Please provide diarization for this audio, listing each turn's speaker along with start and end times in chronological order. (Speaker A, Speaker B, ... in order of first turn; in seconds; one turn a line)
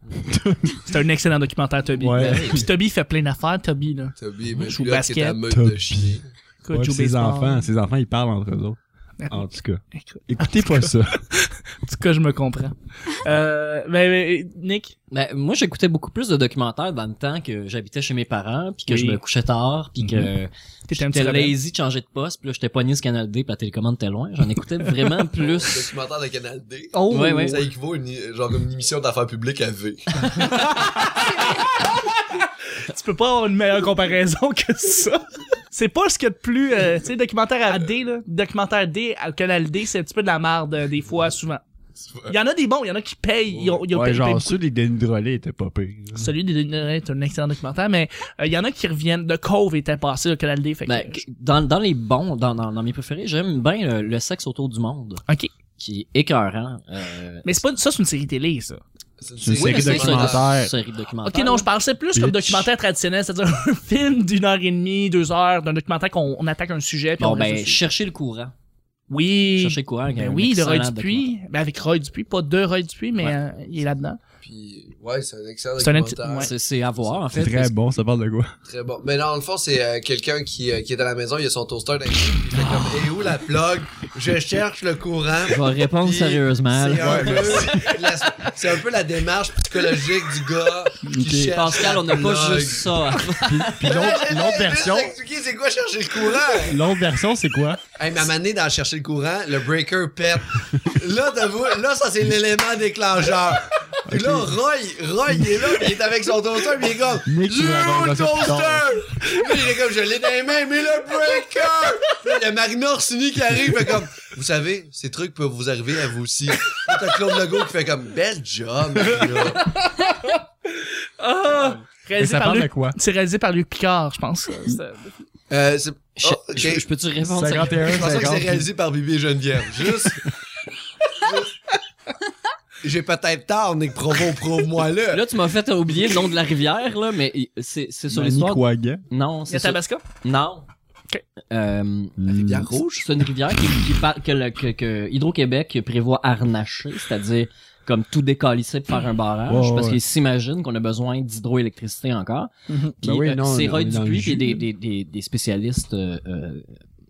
Speaker A: 0.2-0.9
Speaker B: 0.8-5.4
Speaker A: 2.0-2.7
Speaker C: 2.2-2.7
Speaker D: 4.2-6.2
Speaker A: 5.5-11.2
Speaker B: 6.6-7.7
Speaker B: 9.2-14.9
Speaker C: 15.1-25.9
Speaker B: 18.9-19.2
Speaker B: 20.0-20.3
Speaker B: 20.9-21.6
Speaker B: 24.9-25.2
Speaker D: 25.4-30.3
Speaker B: 26.9-27.6
Speaker C: 27.1-27.6
Speaker B: 30.4-41.6
Speaker B: 42.3-44.6
Speaker D: 43.5-43.8
Speaker A: 43.9-46.3
Speaker B: 46.2-51.2
Speaker C: 50.9-55.2
Speaker C: 55.8-57.6
Speaker B: 57.4-58.8
Speaker D: 59.2-60.5
Speaker A: 59.4-60.7
Speaker C: 59.6-61.7
Speaker B: 61.3-67.8
Speaker A: 62.1-62.7
Speaker C: 67.2-68.5
Speaker B: 69.1-74.2
Speaker C: 69.6-71.3
Speaker D: 74.4-77.2
Speaker B: 75.8-76.5
Speaker C: 76.3-77.7
Speaker A: 77.3-78.5
Speaker D: 78.7-93.2
Speaker C: 85.5-87.8
Speaker A: 87.0-88.0
Speaker A: 91.0-91.6
Speaker C: 91.5-94.0
Speaker A: 93.5-95.2
Speaker D: 93.8-96.8
Speaker A: 96.6-97.8
Speaker D: 98.0-119.7
Speaker A: 104.1-104.6
Speaker A: 105.3-105.7
Speaker A: 107.3-108.9
Speaker B: 119.7-125.2
Speaker A: 122.2-123.0
Speaker D: 125.5-126.8
Speaker C: 126.2-128.0
Speaker A: 127.2-128.7
Speaker D: 127.8-130.3
Speaker D: 131.2-131.5
Speaker D: 132.8-135.2
Speaker C: 135.1-140.7
Speaker A: 138.1-139.0
Speaker B: 139.5-140.0
Speaker C: 141.5-142.3
Speaker A: 142.2-142.7
Speaker D: 142.3-143.1
Speaker C: 143.0-152.5
Speaker A: 149.5-150.0
Speaker B: 152.7-152.9
Speaker A: 153.0-154.6
Speaker C: 153.0-156.7